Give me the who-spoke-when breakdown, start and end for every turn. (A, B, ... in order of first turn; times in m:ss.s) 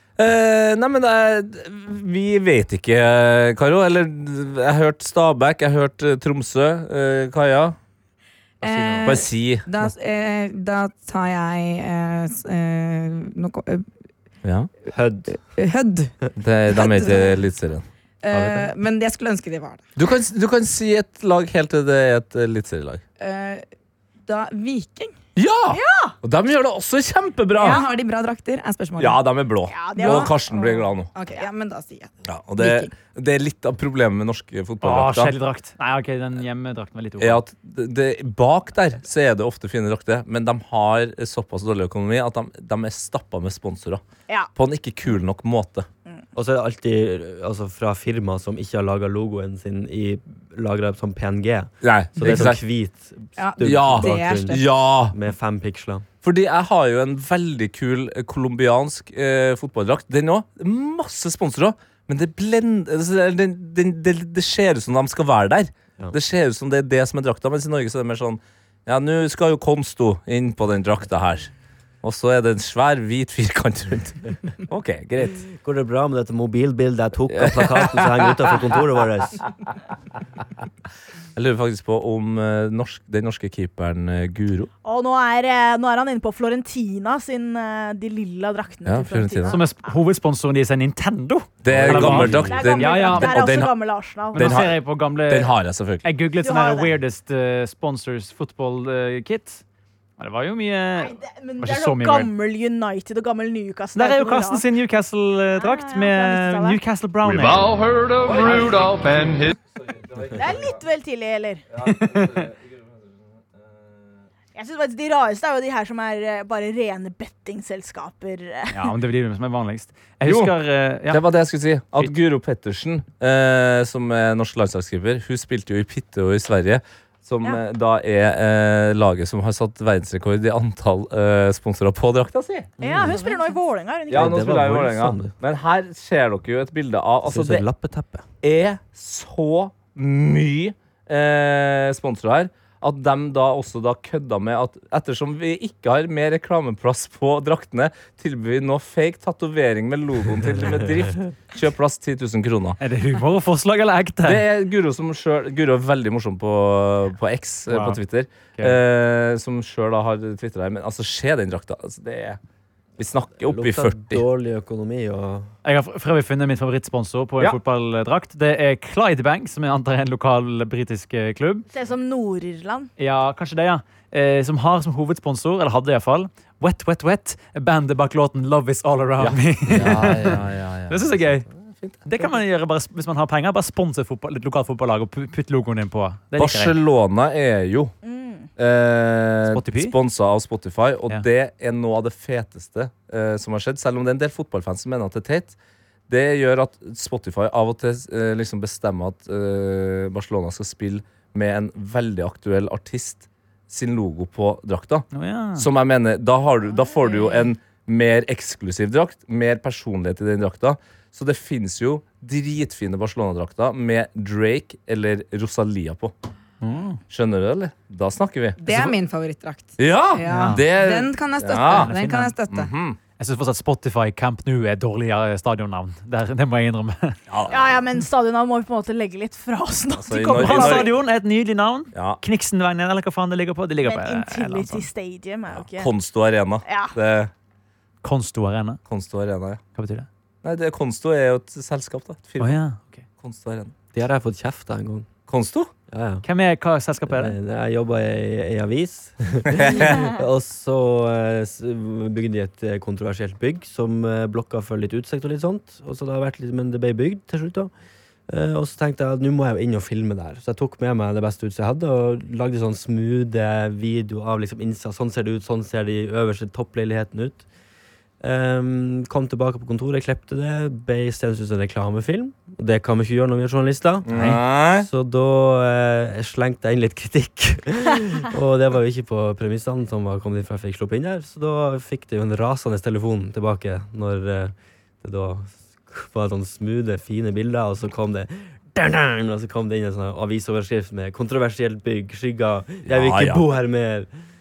0:00.2-0:07.8 A
0:08.6-0:09.2 B
0:08.6-0:13.9 C
0:09.0-0:09.7 A
0:14.4-0:14.7 A
0:14.9-0:15.4 D
0:15.4-0:17.3 C
0:16.4-0:17.8 A
0:18.2-0:19.8 C
0:18.3-0:18.7 D
0:20.0-0:23.0 A
0:23.2-0:23.6 C
0:24.2-0:25.2 C
0:25.4-0:27.8 A
0:25.7-0:26.2 E
0:27.6-0:27.8 E
0:27.6-0:29.2 C
0:29.0-0:31.1 A
0:29.7-0:30.4 E
0:30.0-0:32.9 C
0:31.2-0:31.5 E
0:32.2-0:35.3 A
0:34.8-0:37.4 B
0:37.2-0:44.0 A
0:44.5-0:45.9 A
0:46.3-0:56.1 D
0:51.8-0:52.6 A
0:53.4-0:54.7 C
0:53.6-0:55.2 A
0:56.2-1:11.5 A
1:12.0-1:15.4 A
1:15.4-1:19.4 D
1:17.3-1:18.3 A
1:21.3-1:24.7 A
1:24.8-1:29.9 E
1:28.8-1:29.6 A
1:29.5-1:33.4 B
1:31.6-1:33.7 A
1:31.7-1:32.5 D
1:32.2-1:34.7 E
1:34.3-1:36.0 A
1:34.3-1:39.6 B
1:36.4-1:36.9 E
1:40.2-1:42.3 B
1:41.0-1:44.6 E
1:43.9-1:47.7 B
1:45.6-1:46.8 E
1:47.2-1:49.5 F
1:48.2-1:50.8 A
1:50.3-1:51.6 E
1:51.7-1:52.9 A
1:51.8-1:52.5 B
1:54.5-1:58.9 E
1:58.7-2:01.2 B
2:00.2-2:00.5 A
2:01.1-2:12.7 A
2:12.8-2:14.4 E
2:12.8-2:13.1 D
2:13.1-2:13.4 C
2:14.1-2:17.6 A
2:14.1-2:15.3 D
2:17.2-2:18.2 D
2:18.4-2:32.8 A
2:32.8-2:34.4 B
2:34.2-2:42.4 A
2:37.7-2:38.0 B
2:38.5-2:38.8 B
2:43.0-2:44.2 A
2:43.4-2:45.5 D
2:45.6-2:51.7 B
2:51.7-2:52.9 E
2:53.0-3:01.5 B
2:59.2-3:02.3 A
3:02.0-3:06.7 B
3:06.4-3:07.9 A
3:08.0-3:08.5 E
3:08.6-3:15.6 A
3:09.5-3:10.0 B
3:16.1-3:36.1 A
3:25.1-3:25.7 B
3:36.6-3:37.0 B
3:37.1-3:38.9 A
3:38.6-3:42.7 C
3:39.8-3:41.9 A
3:40.3-3:40.6 B
3:41.7-3:42.3 B
3:42.5-3:43.0 A
3:43.2-3:47.2 B
3:47.3-3:47.8 A
3:47.5-3:50.9 E
3:50.0-3:50.9 A
3:50.3-3:54.9 B
3:53.8-3:55.9 E
3:55.5-3:57.3 A
3:56.6-3:56.9 E
3:58.0-3:58.8 B
3:58.9-3:59.6 A
3:59.8-4:00.1 B
4:00.4-4:02.6 A
4:02.4-4:03.0 B
4:03.2-4:03.7 A
4:03.9-4:05.1 D
4:05.3-4:05.7 A
4:05.9-4:06.2 D
4:06.2-4:07.4 B
4:07.1-4:17.7 D
4:09.5-4:10.1 A
4:18.3-4:27.5 D
4:28.2-4:34.1 D
4:34.1-4:34.9 A
4:34.1-4:34.4 B
4:34.7-4:54.1 D
4:52.8-4:53.4 A